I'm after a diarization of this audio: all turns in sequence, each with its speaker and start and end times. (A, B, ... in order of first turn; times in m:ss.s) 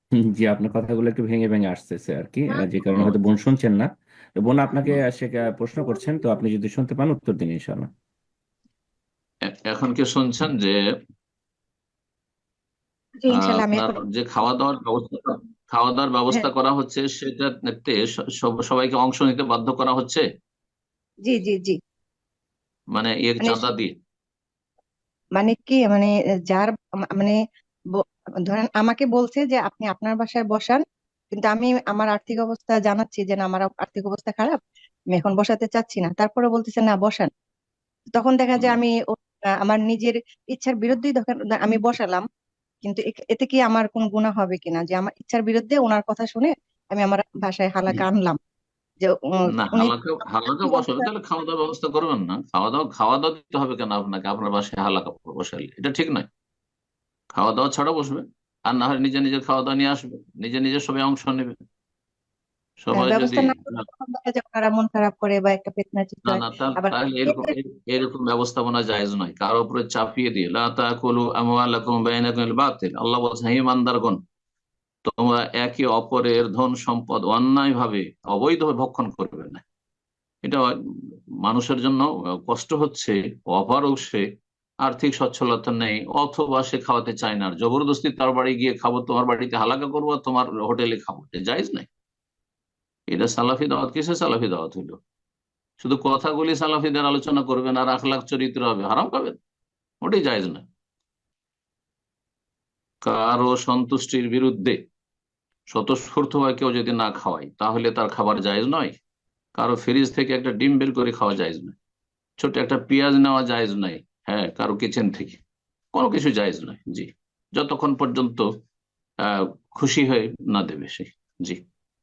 0:00.1-0:07.9 A
0:09.5-0:10.7 B
0:13.2-0:14.0 C
0:13.4-0:20.2 B
0:21.2-0:21.8 C
0:22.9-0:23.9 B
0:23.4-0:23.7 C
0:25.4-0:27.4 C
0:28.5-0:30.8 C
0:31.3-0:34.6 C
0:35.1-0:37.3 C
0:38.1-0:38.9 C
0:39.6-0:42.2 C
0:42.8-0:48.4 C
0:49.0-0:49.9 C
0:49.5-0:56.3 B
0:50.6-0:51.1 C
0:57.3-1:01.5 B
1:02.8-1:03.7 B
1:02.9-1:07.5 C
1:06.2-1:14.2 B
1:15.1-1:19.6 B
1:20.4-1:24.2 B
1:24.8-1:31.9 B
1:33.1-1:35.0 B
1:35.8-1:39.4 B
1:40.0-1:40.6 B
1:43.0-1:44.8 B
1:45.7-1:48.9 B
1:49.6-1:51.8 B
1:52.4-1:55.4 B
1:55.9-1:58.4 B
1:59.2-2:01.6 B